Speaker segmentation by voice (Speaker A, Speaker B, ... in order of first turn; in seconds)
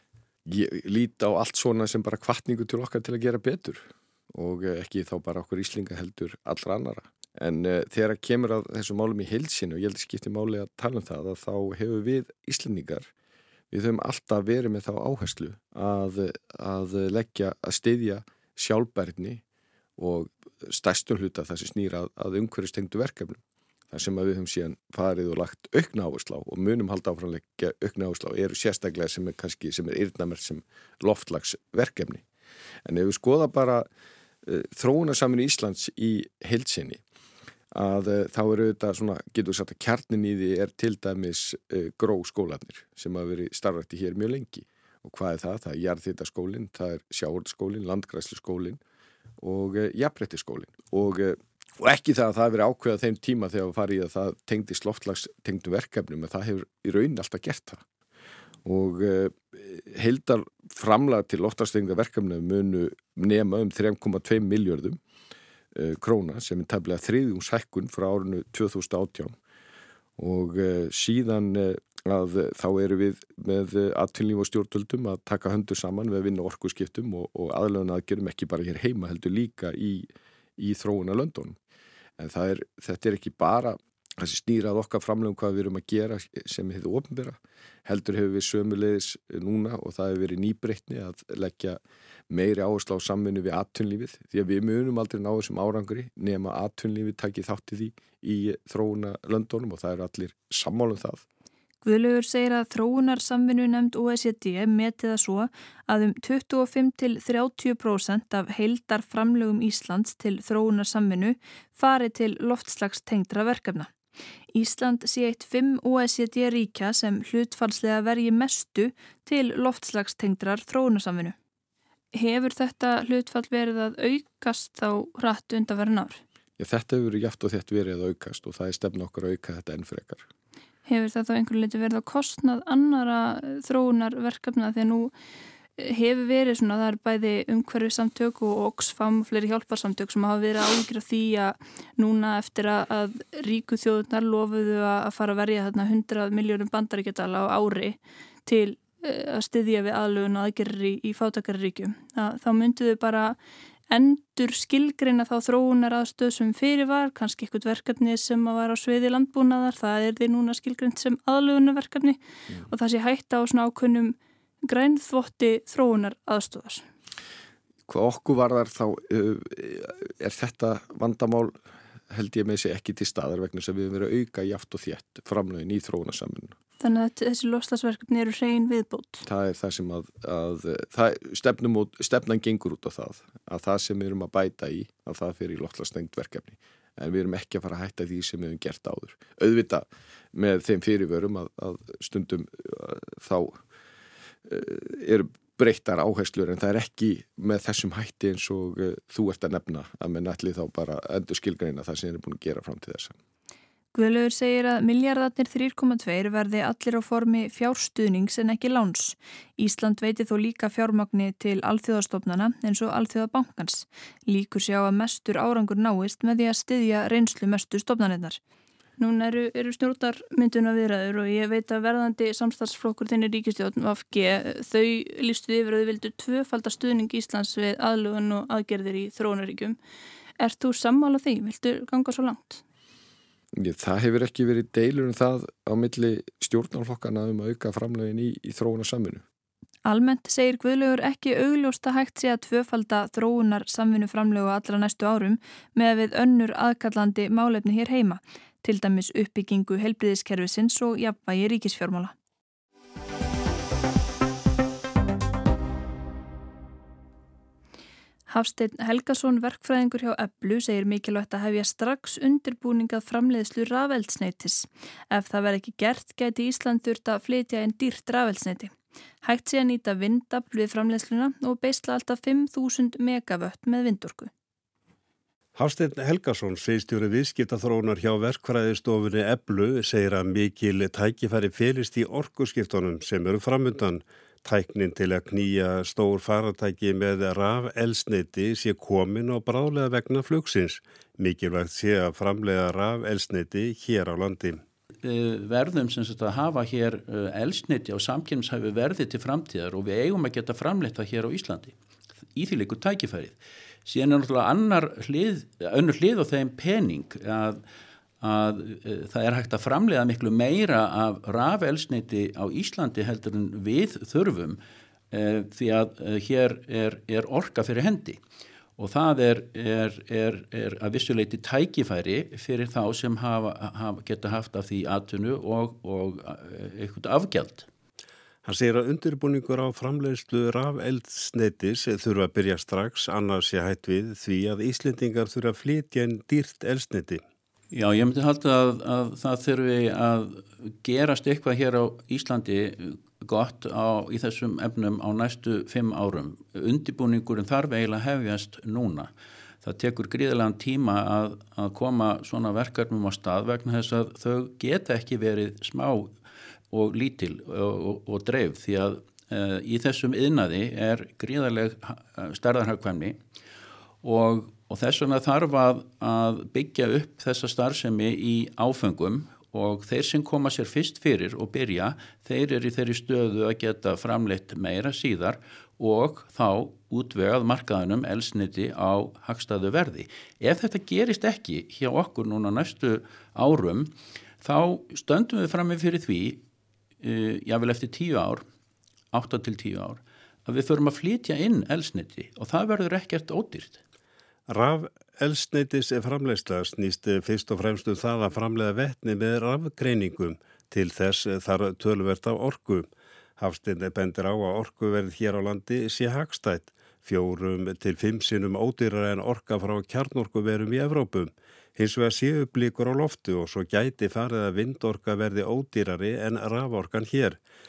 Speaker A: 0.5-13.1, 13.7-19.4, 20.0-32.2, 32.9-33.9, 34.4-37.0, 37.7-48.8, 49.4-57.8, 58.6-65.0, 65.7-69.3, 70.2-81.6, 82.2-101.2, 126.6-130.3, 167.9-176.6, 179.3-193.6, 194.5-203.2, 233.5-239.2
Speaker B: 101.8-113.9, 114.5-121.3, 122.1-126.2, 130.9-135.1, 135.8-153.4, 153.9-166.8, 176.8-179.3, 203.9-218.4, 219.0-229.8, 230.4-232.6, 239.8-252.1, 258.3-274.3
Speaker C: 275.6-294.6, 328.4-337.2, 394.5-417.4
Speaker D: 295.0-301.7, 302.4-307.6, 308.2-314.6, 315.1-318.2, 318.8-327.7, 337.7-349.1, 349.6-356.1, 356.7-363.2, 364.0-386.4, 387.0-388.4, 389.1-393.8